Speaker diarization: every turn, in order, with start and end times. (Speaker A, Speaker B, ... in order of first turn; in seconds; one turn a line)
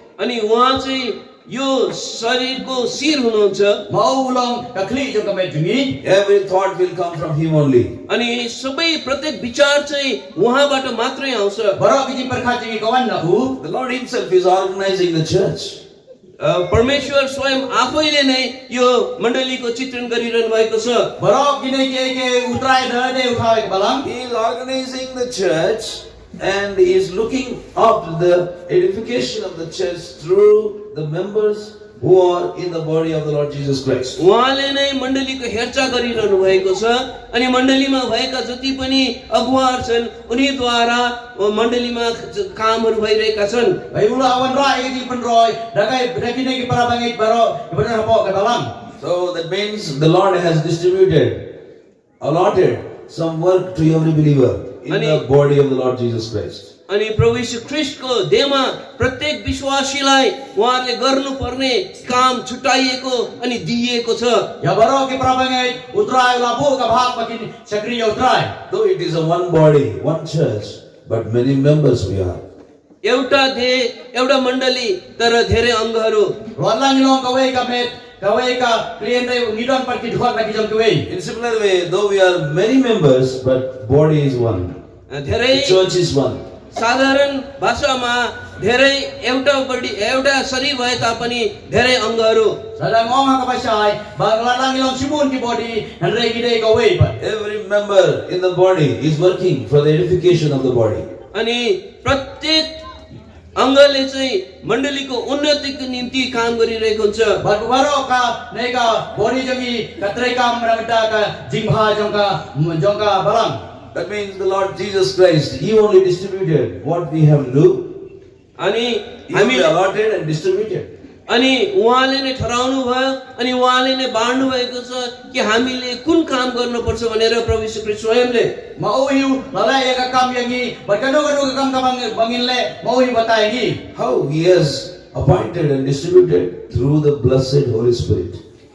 Speaker A: 0.2-3.8
Speaker B: 3.9-6.0
Speaker C: 6.0-8.0
Speaker A: 8.1-11.8
Speaker B: 11.8-13.6
Speaker C: 13.6-15.8
Speaker A: 16.4-21.1
Speaker B: 21.2-24.1
Speaker C: 24.0-34.2
Speaker A: 34.2-43.8
Speaker B: 43.9-48.7
Speaker C: 49.0-51.5
Speaker C: 52.2-56.7
Speaker A: 54.9-55.2
Speaker A: 56.9-64.5
Speaker B: 64.6-68.5
Speaker C: 68.7-72.4
Speaker A: 73.0-76.3
Speaker B: 76.6-81.0
Speaker C: 81.1-84.8
Speaker A: 85.1-85.8
Speaker C: 85.5-86.4
Speaker A: 86.7-92.6
Speaker B: 92.8-97.2
Speaker C: 97.2-101.1
Speaker A: 101.3-102.7
Speaker A: 103.6-107.4
Speaker B: 107.4-113.6
Speaker C: 113.9-118.0
Speaker A: 118.6-119.7
Speaker C: 119.3-120.9
Speaker A: 121.3-128.5
Speaker B: 128.8-133.8
Speaker C: 133.9-138.4